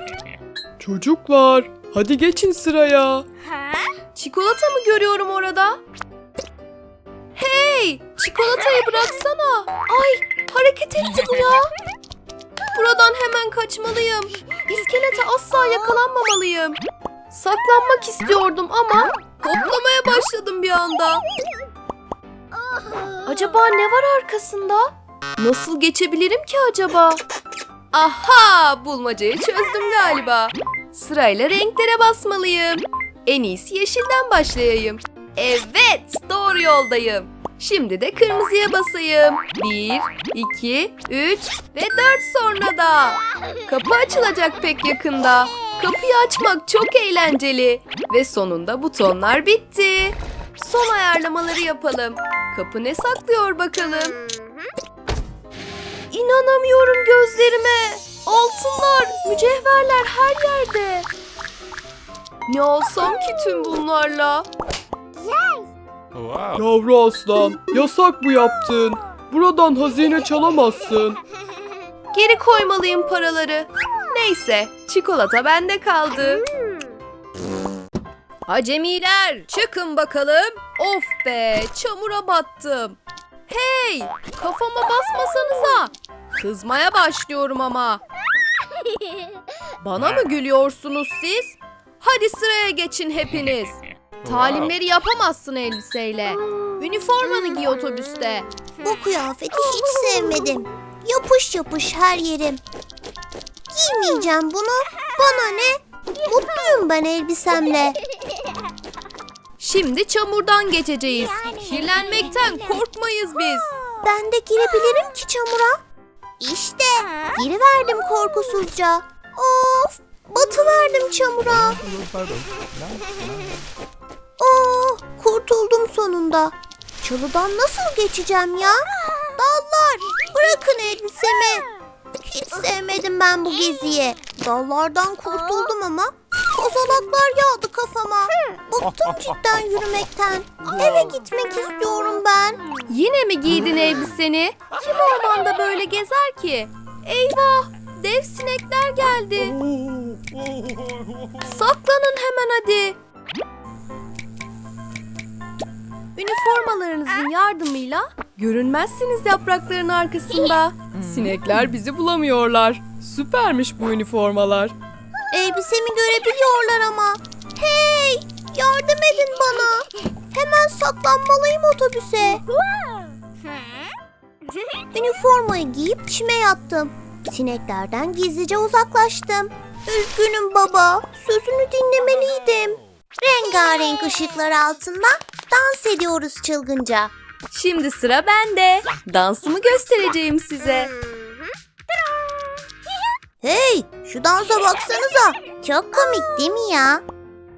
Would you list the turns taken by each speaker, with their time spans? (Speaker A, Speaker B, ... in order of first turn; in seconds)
Speaker A: 0.8-3.2, 66.5-71.2
Speaker B: 4.1-5.8, 7.3-11.7, 12.7-16.8, 17.3-21.2, 23.2-27.2, 27.9-54.2, 56.1-61.1, 62.5-64.5, 72.1-76.4, 78.5-88.0, 89.8-98.5, 109.6-113.7, 142.9-149.6, 151.4-152.9, 156.2-164.7, 187.5-190.9
Speaker C: 98.8-102.6, 103.7-108.0, 114.0-115.8, 116.4-121.8, 124.4-128.8, 129.4-131.6, 132.2-142.6, 165.3-172.4, 174.9-187.1, 193.4-197.0